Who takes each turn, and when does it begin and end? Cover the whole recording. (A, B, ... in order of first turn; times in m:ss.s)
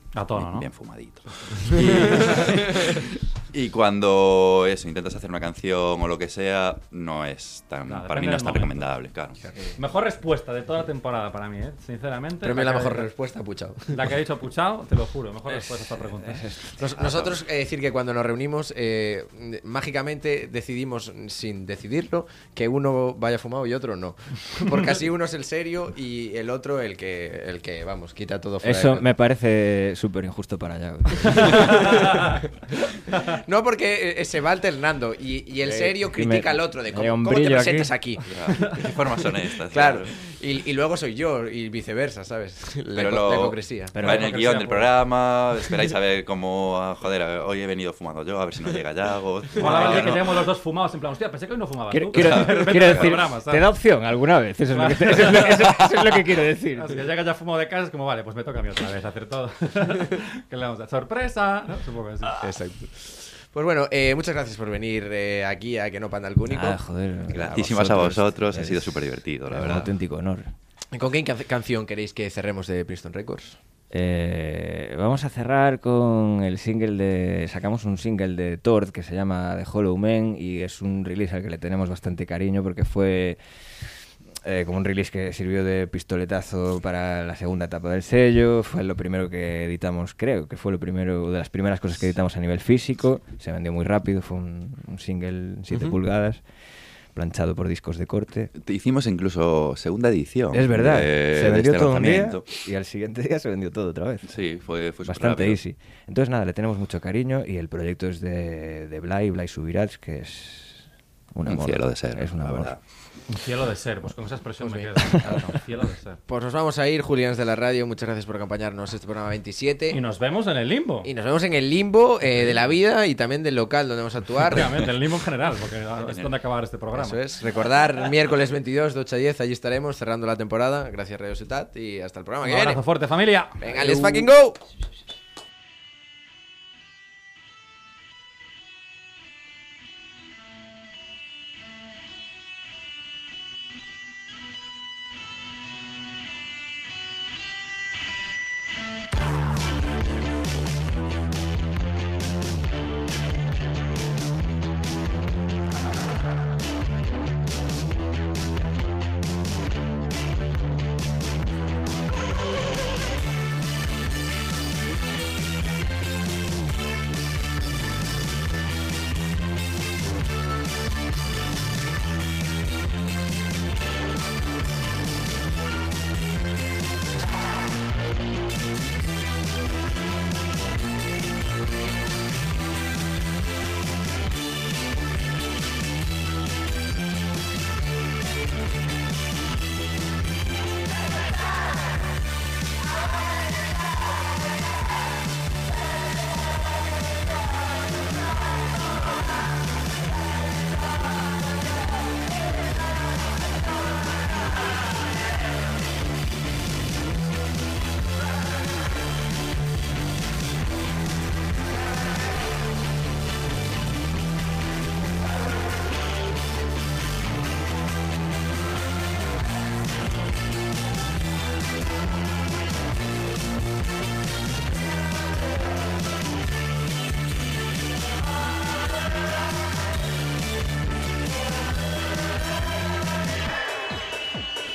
0:00.1-0:00.7 A
0:00.4-0:09.4 B
0:01.5-0:02.5 A
0:07.9-0:08.9 A
0:09.8-0:13.1 A
0:12.4-0:14.1 C
0:13.9-0:16.4 A
0:15.5-0:16.9 D
0:16.8-0:29.1 C
0:17.0-0:17.3 B
0:28.6-0:32.4 D
0:31.5-0:32.3 C
0:33.2-0:38.3 C
0:35.6-0:37.9 D
0:38.2-0:40.1 B
0:39.7-0:44.0 C
0:42.9-0:50.5 B
0:44.0-0:44.3 D
0:44.0-0:44.9 A
0:49.6-0:53.6 A
0:51.9-0:57.0 D
0:52.1-0:53.1 B
0:54.7-0:55.8 A
0:56.7-1:02.4 A
1:02.3-1:06.8 C
1:06.5-1:10.5 D
1:07.3-1:09.9 B
1:10.9-1:13.6 C
1:13.9-1:23.4 D
1:24.4-1:36.4 D
1:37.1-1:38.5 D
1:38.6-1:42.6 B
1:40.5-1:44.4 D
1:44.2-1:45.6 B
1:45.0-1:52.8 D
1:51.4-1:52.8 B
1:53.3-1:56.2 A
1:54.6-1:55.2 C
1:56.3-2:00.0 C
1:59.9-2:01.1 A
2:01.0-2:04.8 C
2:04.5-2:07.2 A
2:06.0-2:06.3 B
2:06.9-2:12.8 C
2:12.4-2:14.2 A
2:13.6-2:14.6 C